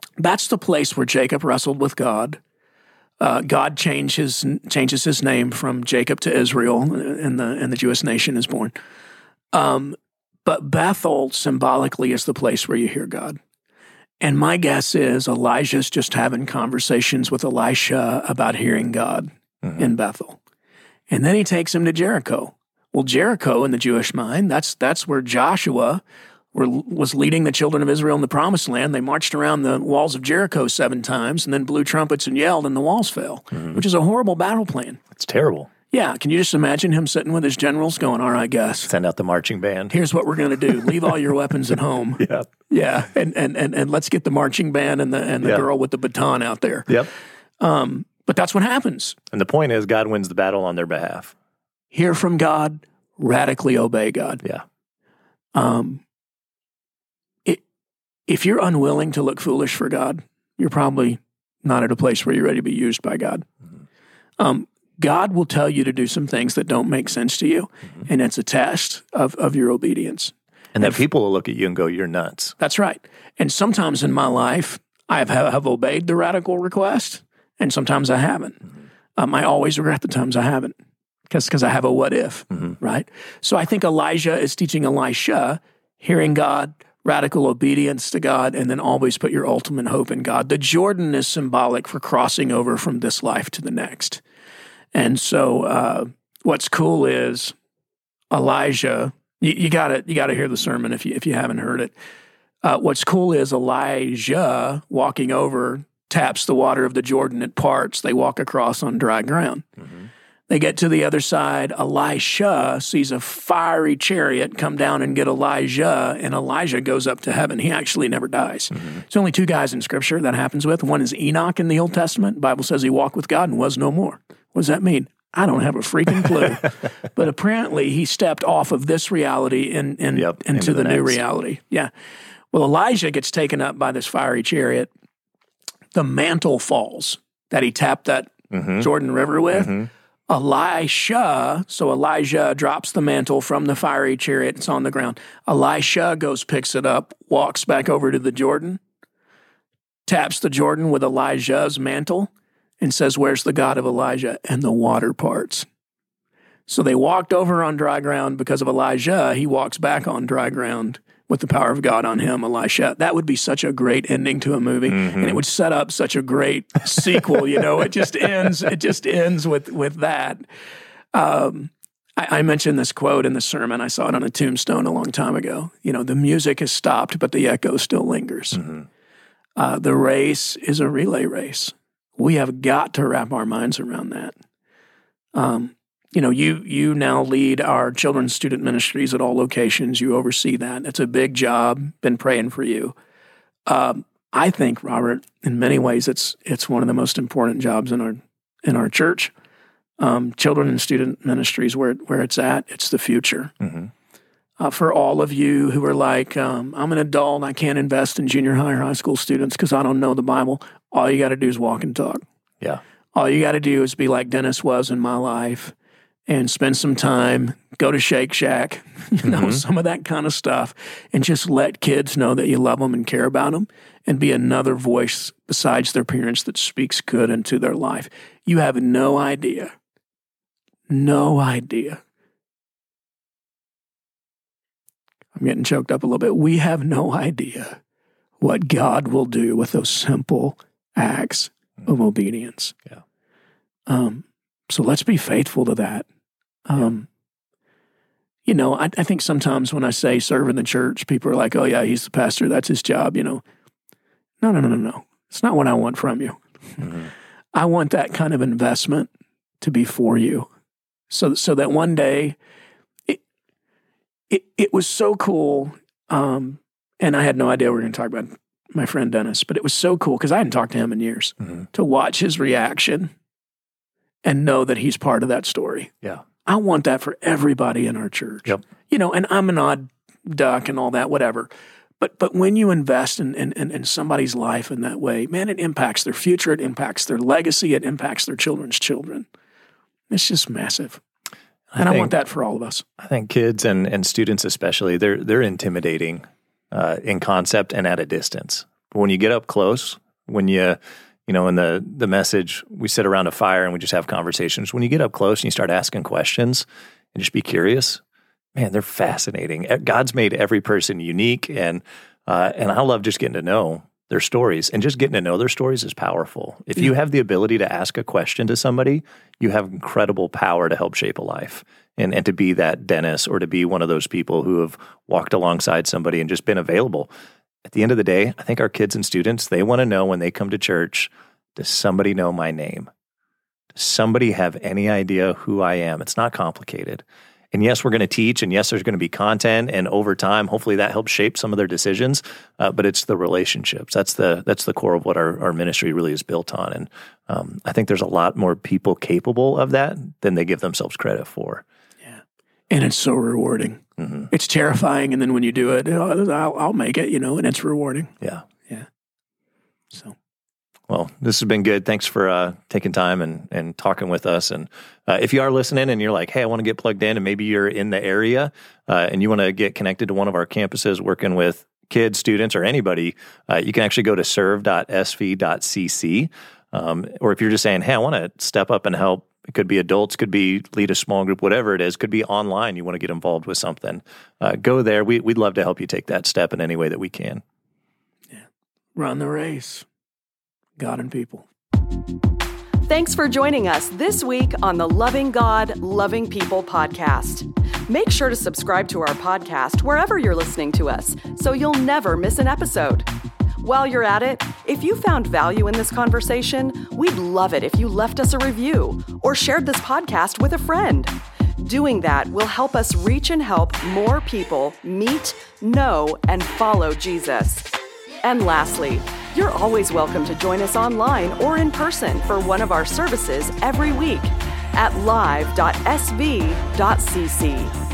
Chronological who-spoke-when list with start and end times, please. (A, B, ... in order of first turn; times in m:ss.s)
0:00.2-0:02.4 A
0:03.2-0:08.7 A
0:09.5-0:13.4 A
0:14.2-0:20.4 A
0:19.6-0:19.9 B
0:21.1-0:26.0 A
0:26.5-0:35.0 A
0:35.1-0:35.7 B
0:35.9-0:38.9 A
0:38.9-0:39.9 B
0:39.9-0:47.0 A
0:42.2-0:42.5 B
0:47.6-0:49.2 A
0:49.3-0:51.3 B
0:51.9-0:54.4 A
0:55.5-0:56.0 A
0:58.3-1:03.4 A
1:04.4-1:11.0 A
1:10.7-1:12.6 B
1:12.6-1:18.6 A
1:19.2-1:20.7 A
1:21.3-1:34.2 A
1:34.9-1:37.5 A
1:38.3-1:41.9 A
1:42.6-1:49.7 A
1:50.5-2:11.9 A
2:10.1-2:11.2 B
2:12.5-2:14.9 A
2:15.9-2:28.8 A
2:18.5-2:18.9 B
2:19.6-2:19.9 B
2:30.0-2:35.6 A
2:36.7-2:50.4 A
2:44.9-2:45.4 B
2:51.1-2:58.6 A
2:59.6-3:04.3 A
3:05.3-3:12.9 A
3:13.6-3:19.3 A
3:20.0-3:23.5 A
3:23.6-3:23.9 B
3:24.6-3:32.2 A
3:33.1-3:35.7 A
3:36.3-3:49.7 A
3:39.2-3:39.6 B
3:50.9-3:52.0 A
3:55.3-3:57.8 A
3:58.4-4:02.8 A
4:03.9-4:06.0 A
4:06.6-4:07.1 A
4:08.4-4:13.4 A
4:14.4-4:19.1 A
4:19.6-4:20.5 A
4:21.1-4:22.4 A
4:24.3-4:33.1 A
4:34.2-4:35.9 A
4:36.4-4:41.5 A
4:42.0-4:49.2 A
4:50.1-4:51.0 A
4:51.7-4:52.1 B
4:51.8-4:52.8 A
4:53.0-5:08.0 B
5:08.5-5:27.1 B
5:27.6-5:32.9 B
5:33.7-5:51.6 B
5:52.0-5:58.1 A
5:54.0-5:54.3 B
6:00.9-6:27.4 B
6:29.0-6:29.8 A
6:30.8-6:31.5 A
6:32.8-6:43.1 C
6:43.6-6:57.7 C
6:58.2-7:07.7 C